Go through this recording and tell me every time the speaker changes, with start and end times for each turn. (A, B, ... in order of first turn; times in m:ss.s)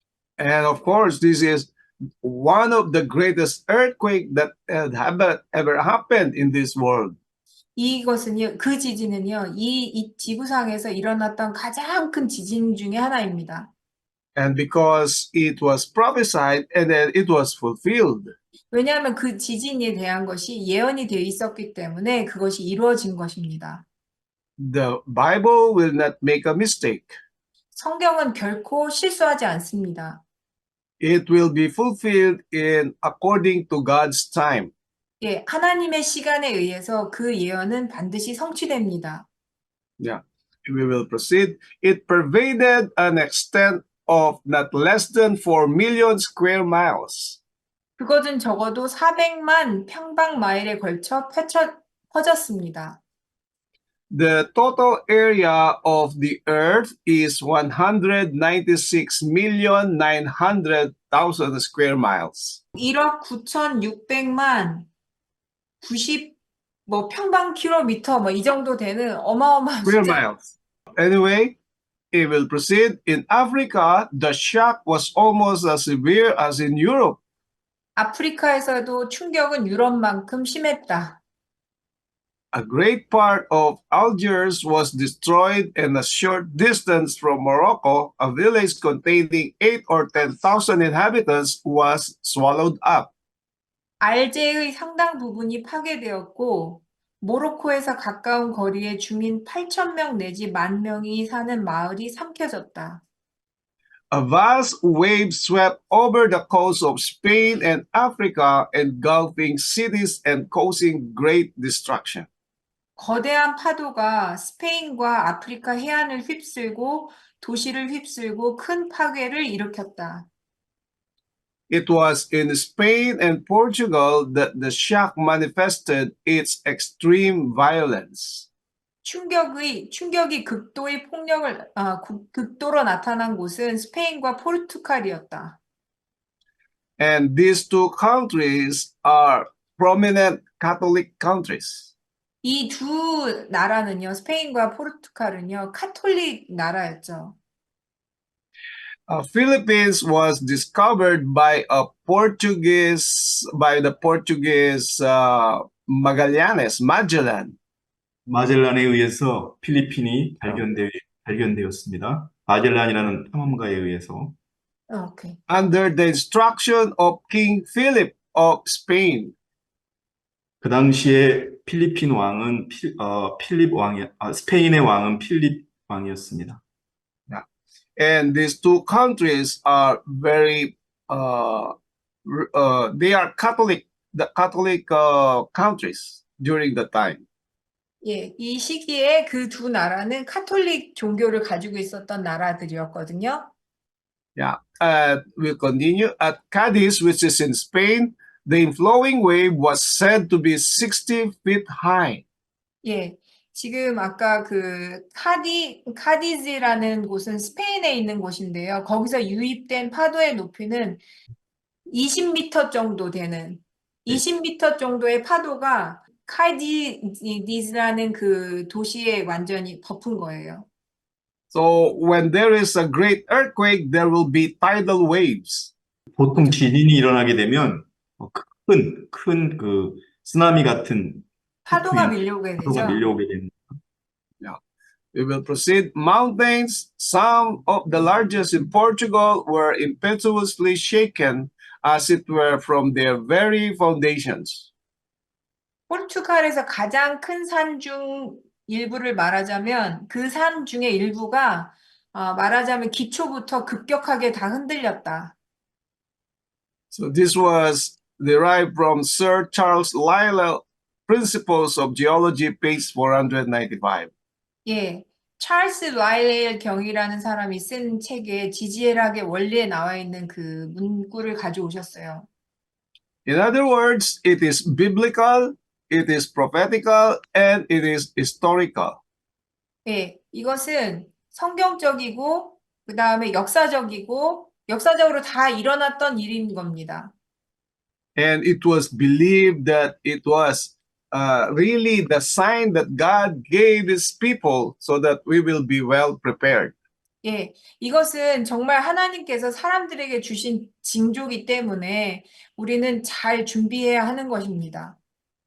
0:00.4-0:07.2 A
0:07.8-0:13.7 B
0:14.4-0:18.3 A
0:18.7-0:23.8 B
0:24.6-0:27.2 A
0:27.8-0:30.2 B
0:31.0-0:34.7 A
0:35.2-0:39.3 B
0:40.0-0:47.4 A
0:48.0-0:53.0 B
0:54.1-1:02.6 A
1:02.8-1:04.9 B
1:05.8-1:06.4 B
1:06.9-1:10.2 B
1:09.8-1:11.6 A
1:12.1-1:17.2 A
1:18.0-1:21.2 B
1:22.5-1:33.1 A
1:34.0-1:43.0 B
1:44.1-1:52.3 A
1:53.0-2:00.3 B
2:01.7-2:08.5 A
2:09.0-2:15.6 B
2:17.0-2:21.9 A
2:22.4-2:27.4 B
2:29.1-2:37.6 A
2:38.3-2:44.4 C
2:44.9-2:45.4 B
2:45.5-2:49.3 A
2:50.6-2:56.6 C
2:58.0-3:01.7 A
3:02.2-3:07.2 A
3:08.0-3:13.5 B
3:14.4-3:22.2 A
3:22.8-3:31.0 B
3:31.9-3:40.7 B
3:41.5-3:45.7 A
3:46.2-3:53.6 C
3:51.7-3:53.0 B
3:55.1-4:04.7 A
4:05.9-4:15.4 B
4:16.9-4:24.1 A
4:24.7-4:32.3 B
4:33.3-4:39.0 A
4:39.9-4:47.1 B
4:48.2-4:56.8 A
4:57.2-5:05.0 B